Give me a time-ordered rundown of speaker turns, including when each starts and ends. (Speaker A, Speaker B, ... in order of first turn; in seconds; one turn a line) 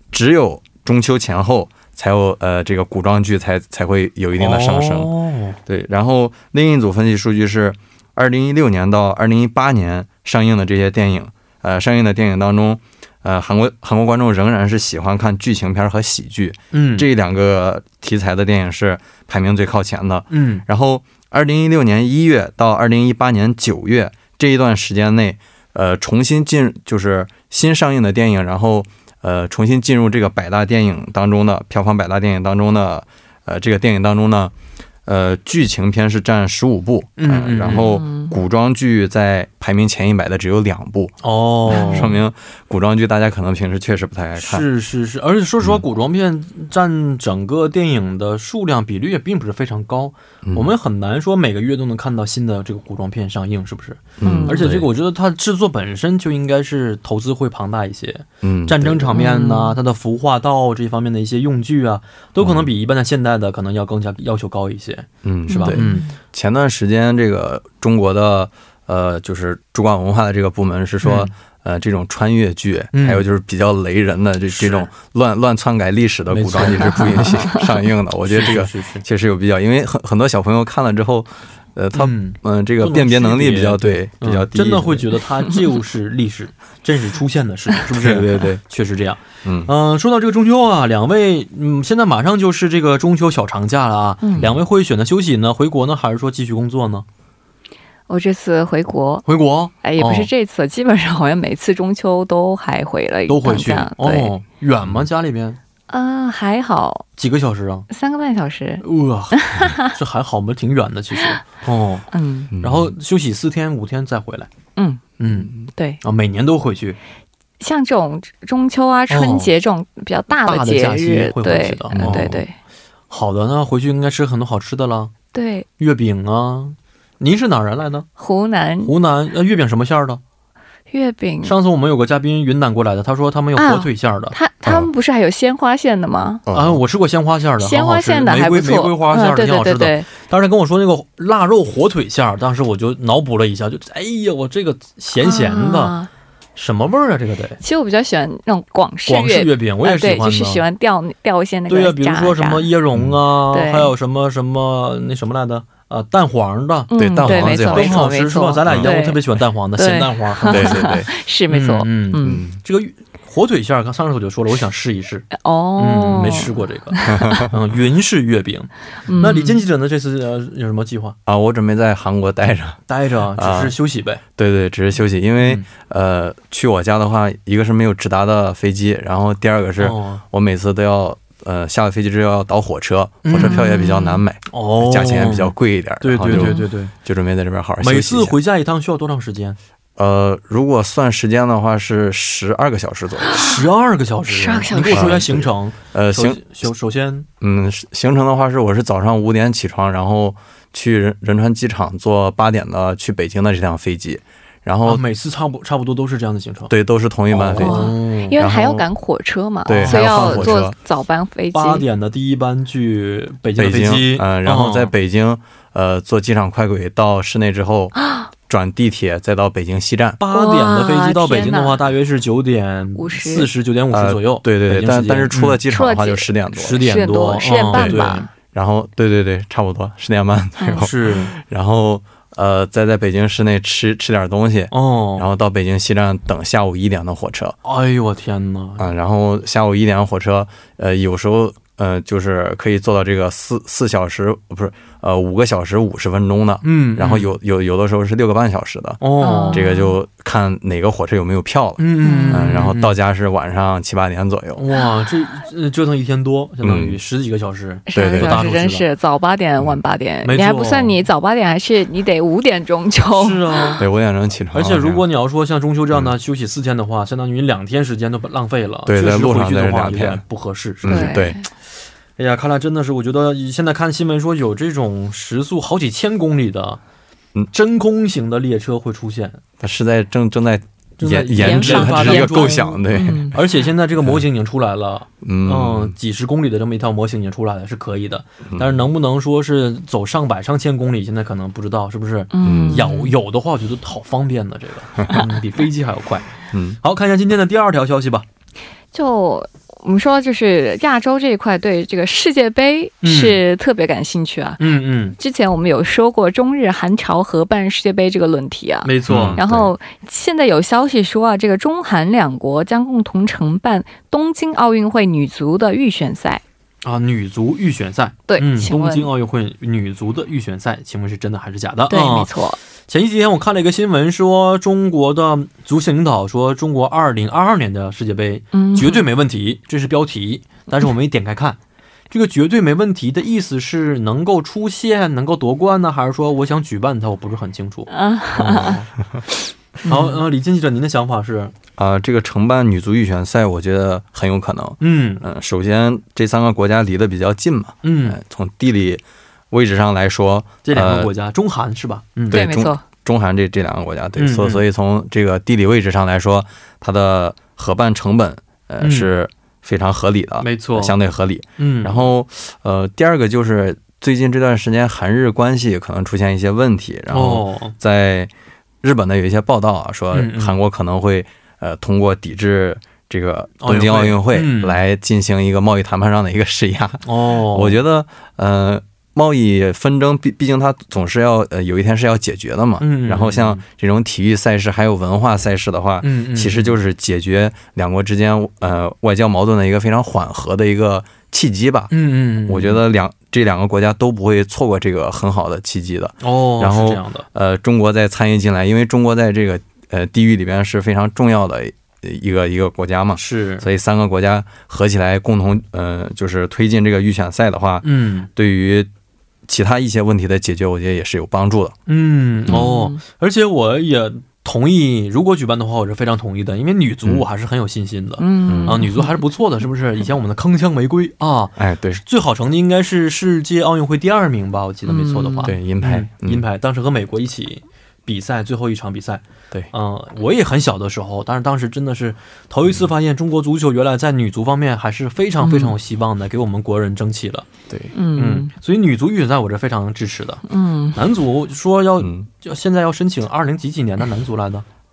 Speaker A: 0.1-5.1
Speaker B: 4.4-5.6
Speaker A: 5.7-34.5
Speaker B: 16.7-17.1
Speaker B: 20.3-20.6
Speaker A: 35.0-41.1
Speaker B: 37.2-37.9
Speaker C: 37.7-38.3
Speaker B: 41.2-42.1
Speaker C: 41.7-42.1
Speaker A: 41.7-44.6
Speaker B: 44.4-66.0
Speaker A: 50.4-50.7
Speaker A: 54.2-54.9
Speaker C: 54.2-54.7
Speaker A: 58.4-59.2
Speaker C: 59.1-59.8
Speaker A: 62.4-62.7
Speaker A: 65.2-85.1
Speaker C: 65.5-66.1
Speaker B: 71.0-71.3
Speaker B: 72.9-73.2
Speaker B: 74.5-74.9
Speaker B: 76.3-77.4
Speaker B: 78.2-79.0
Speaker B: 81.9-97.0
Speaker A: 87.9-88.6
Speaker A: 89.4-89.7
Speaker C: 94.2-94.5
Speaker C: 98.1-99.2
Speaker B: 99.2-100.3
Speaker C: 99.8-104.3
Speaker B: 103.3-105.6
Speaker C: 105.9-107.0
Speaker B: 107.2-107.9
Speaker C: 107.9-108.8
Speaker B: 108.8-112.1
Speaker C: 109.4-109.9
Speaker C: 112.1-112.5
Speaker A: 112.5-112.9
Speaker B: 112.6-114.5
Speaker C: 114.8-115.0
Speaker B: 115.2-117.0
Speaker C: 115.7-116.0
Speaker C: 117.6-122.5
Speaker B: 119.1-119.5
Speaker B: 120.4-122.3
Speaker A: 121.9-122.4
Speaker B: 123.1-125.1
Speaker C: 125.3-125.7
Speaker B: 125.8-128.1
Speaker C: 128.2-128.9
Speaker B: 128.8-130.2
Speaker C: 130.9-131.6
Speaker B: 131.4-134.3
Speaker C: 133.6-136.4
Speaker A: 136.4-136.8
Speaker B: 136.5-145.9
Speaker C: 137.6-140.1
Speaker C: 145.2-146.1
Speaker B: 146.6-147.6
Speaker C: 147.6-152.7
Speaker B: 149.1-150.6
Speaker B: 151.7-160.9
Speaker C: 153.5-153.9
Speaker C: 156.9-159.2
Speaker A: 157.0-158.1
Speaker A: 158.7-158.9
Speaker C: 159.8-162.4
Speaker A: 160.5-161.1
Speaker B: 161.5-165.3
Speaker A: 162.2-162.6
Speaker C: 165.3-167.4
Speaker B: 165.8-171.2
Speaker A: 167.1-167.5
Speaker C: 169.0-169.6
Speaker A: 171.2-172.8
Speaker B: 172.9-174.2
Speaker A: 173.3-173.8
Speaker A: 174.4-188.4
Speaker B: 179.8-180.2
Speaker B: 183.2-183.7
Speaker C: 183.3-184.2
Speaker B: 184.5-186.9
Speaker C: 186.3-186.7
Speaker B: 187.8-189.6
Speaker A: 190.0-193.4
Speaker B: 193.3-197.3
Speaker C: 194.3-195.2
Speaker A: 194.9-196.4
Speaker A: 197.4-205.0
Speaker B: 204.8-206.7
Speaker A: 206.7-208.8
Speaker B: 207.3-208.4
Speaker C: 207.6-211.8
Speaker A: 209.6-210.7
Speaker B: 209.8-210.6
Speaker B: 211.5-214.9
Speaker A: 213.6-220.2
Speaker C: 217.9-218.3
Speaker B: 220.2-225.6
Speaker C: 220.3-221.8
Speaker C: 223.0-223.5
Speaker A: 223.9-226.8
Speaker C: 225.7-228.3
Speaker B: 226.5-228.3
Speaker A: 227.7-237.6
Speaker C: 230.6-230.9
Speaker B: 230.7-231.3
Speaker B: 234.7-235.2
Speaker B: 237.6-238.9
Speaker A: 238.8-254.6
Speaker B: 246.6-247.3
Speaker B: 249.0-249.7
Speaker C: 249.2-249.9
Speaker B: 251.8-252.9
Speaker C: 252.0-252.6
Speaker B: 254.6-258.9
Speaker A: 256.6-257.0
Speaker C: 257.9-263.8
Speaker A: 257.9-258.4
Speaker B: 260.2-261.0
Speaker B: 263.1-263.9
Speaker A: 263.8-265.0
Speaker B: 264.5-271.2
Speaker A: 268.9-270.2
Speaker A: 270.8-271.4
Speaker C: 270.9-271.4
Speaker B: 272.2-276.8
Speaker B: 277.5-279.4
Speaker A: 279.6-283.4
Speaker B: 281.0-282.8
Speaker C: 281.4-283.4
Speaker B: 283.3-298.2
Speaker A: 285.2-285.9
Speaker A: 288.5-288.8
Speaker C: 292.3-293.1
Speaker A: 292.4-292.9
Speaker A: 296.5-296.8
Speaker C: 298.9-304.6
Speaker B: 303.0-303.4
Speaker B: 304.6-305.1
Speaker C: 305.2-316.4
Speaker B: 308.8-309.4
Speaker A: 309.1-309.7
Speaker B: 316.8-322.3
Speaker C: 318.3-319.1
Speaker C: 321.9-322.6
Speaker B: 322.9-331.6
Speaker C: 328.5-329.1
Speaker B: 332.1-338.9
Speaker C: 337.9-338.8
Speaker C: 339.8-340.2
Speaker B: 339.8-341.5
Speaker A: 341.8-351.1
Speaker B: 344.8-345.2
Speaker B: 347.8-348.2
Speaker B: 350.6-352.4
Speaker A: 352.3-368.3
Speaker C: 352.3-352.8
Speaker B: 354.2-354.6
Speaker B: 358.8-359.1
Speaker B: 360.4-360.9
Speaker B: 361.6-362.0
Speaker B: 367.1-367.7
Speaker A: 368.8-391.9
Speaker B: 370.1-370.5
Speaker B: 373.6-374.8
Speaker B: 377.0-377.8
Speaker B: 382.8-383.6
Speaker B: 386.0-386.7
Speaker B: 391.9-392.8
Speaker A: 392.5-408.9
Speaker B: 396.2-397.2
Speaker B: 403.2-403.6
Speaker B: 407.8-408.3
Speaker A: 409.5-411.7
Speaker B: 411.9-437.5
Speaker C: 412.5-413.0
Speaker C: 418.2-419.2
Speaker A: 418.5-418.8
Speaker A: 421.6-422.0
Speaker C: 424.9-425.5
Speaker A: 425.4-426.4
Speaker C: 435.4-435.7
Speaker C: 437.9-438.5
Speaker B: 438.1-444.6
Speaker C: 440.5-441.0
Speaker A: 442.0-442.2